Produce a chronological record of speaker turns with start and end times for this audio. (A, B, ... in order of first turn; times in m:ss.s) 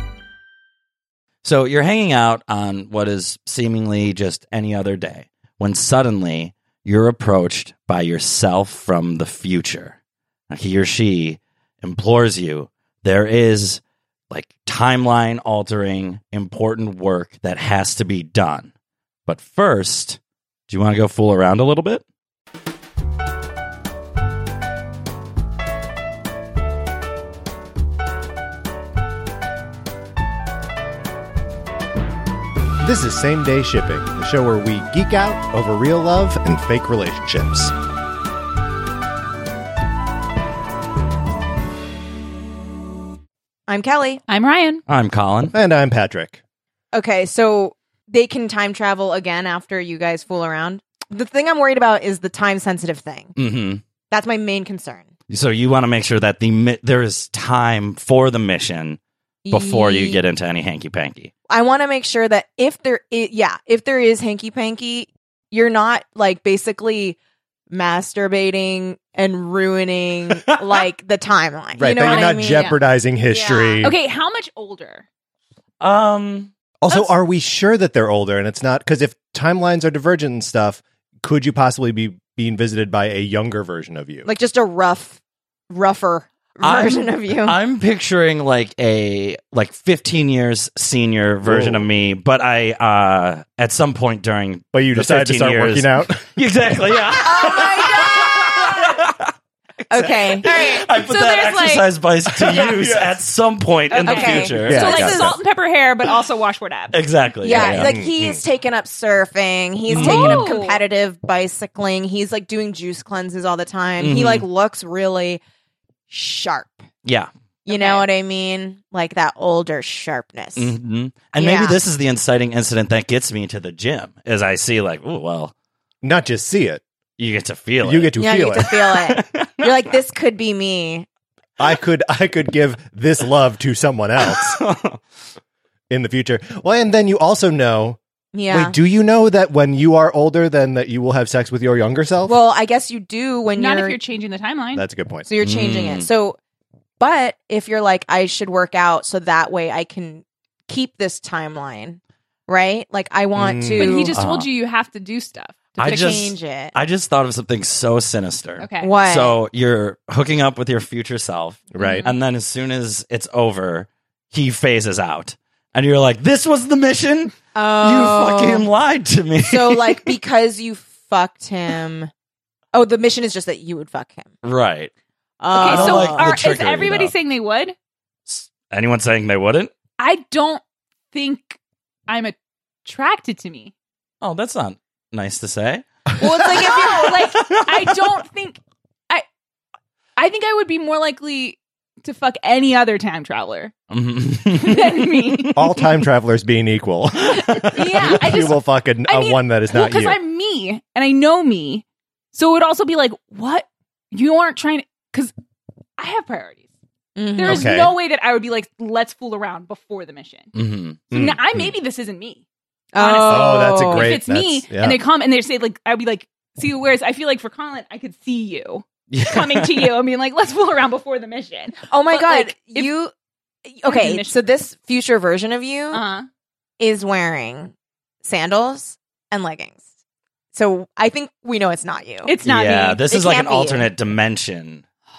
0:01.4-0:10.0 A
0:10.5-0:18.7 A
0:19.2-0:20.2 A
0:20.7-0:22.0 A
0:32.8-0:37.7 B
0:43.7-0:44.2 C
0:44.3-0:44.8 D
0:44.9-0:45.5 A
0:45.5-0:46.4 B
0:46.9-0:53.3 C
0:53.4-0:53.8 A
0:54.1-0:55.1 C
0:55.3-1:01.3 A
0:59.4-1:00.2 C
1:01.5-1:07.2 C
1:07.7-1:13.8 C
1:11.8-1:14.0 B
1:11.9-1:12.8 D
1:13.8-1:15.0 D
1:15.8-1:16.5 A
1:16.8-1:24.3 B
1:24.2-1:27.6 C
1:26.6-1:39.3 A
1:31.4-1:31.9 B
1:34.7-1:36.3 B
1:37.2-1:39.0 C
1:39.9-1:40.5 C
1:39.9-1:45.3 A
1:40.4-1:41.9 D
1:42.5-1:43.0 B
1:42.5-1:42.8 D
1:43.9-1:47.0 D
1:43.9-1:45.2 C
1:44.6-1:45.4 B
1:46.9-1:47.9 A
1:47.4-1:55.4 C
1:47.6-1:48.4 B
1:49.9-1:50.4 A
1:50.0-1:50.8 D
1:54.0-1:54.5 A
1:56.1-1:56.8 C
1:57.0-1:57.3 A
1:57.6-2:00.7 C
1:57.7-1:58.1 D
2:00.6-2:05.5 A
2:01.4-2:01.8 C
2:06.0-2:06.8 B
2:07.2-2:09.7 A
2:07.8-2:08.7 B
2:08.2-2:11.0 C
2:11.6-2:14.6 B
2:14.3-2:15.0 A
2:15.9-2:22.4 B
2:18.3-2:18.8 C
2:22.2-2:24.0 C
2:23.5-2:24.8 D
2:24.7-2:25.3 B
2:25.2-2:26.4 C
2:25.4-2:26.1 A
2:27.0-2:34.2 C
2:33.3-2:34.1 B
2:33.8-2:36.2 D
2:34.1-2:34.5 A
2:35.8-2:50.0 A
2:35.8-2:36.7 C
2:38.6-2:38.9 D
2:38.8-2:39.4 C
2:41.7-2:42.0 B
2:41.8-2:42.1 D
2:47.5-2:48.7 C
2:49.4-2:52.1 C
2:52.7-2:54.3 C
2:54.4-2:54.9 A
2:55.4-2:56.3 C
2:55.5-2:57.1 A
2:55.6-2:57.8 D
2:58.3-2:59.7 A
3:00.0-3:03.7 D
3:04.2-3:05.8 A
3:06.2-3:08.6 D
3:10.2-3:13.7 D
3:13.9-3:15.5 A
3:14.6-3:15.8 D
3:15.6-3:20.2 B
3:17.6-3:25.3 D
3:26.0-3:26.6 D
3:27.2-3:27.7 C
3:27.4-3:30.5 D
3:27.4-3:27.9 B
3:30.5-3:31.0 A
3:31.1-3:32.4 D
3:31.1-3:31.4 B
3:32.9-3:34.2 C
3:33.0-3:42.9 D
3:33.3-3:35.0 B
3:39.1-3:39.9 A
3:41.9-3:43.1 C
3:43.6-3:46.0 C
3:43.8-3:44.4 D
3:45.9-3:46.3 D
3:46.8-3:47.7 C
3:48.2-3:49.8 C
3:50.5-3:52.3 C
3:52.2-3:53.0 D
3:52.4-3:54.8 A
3:53.1-3:53.9 C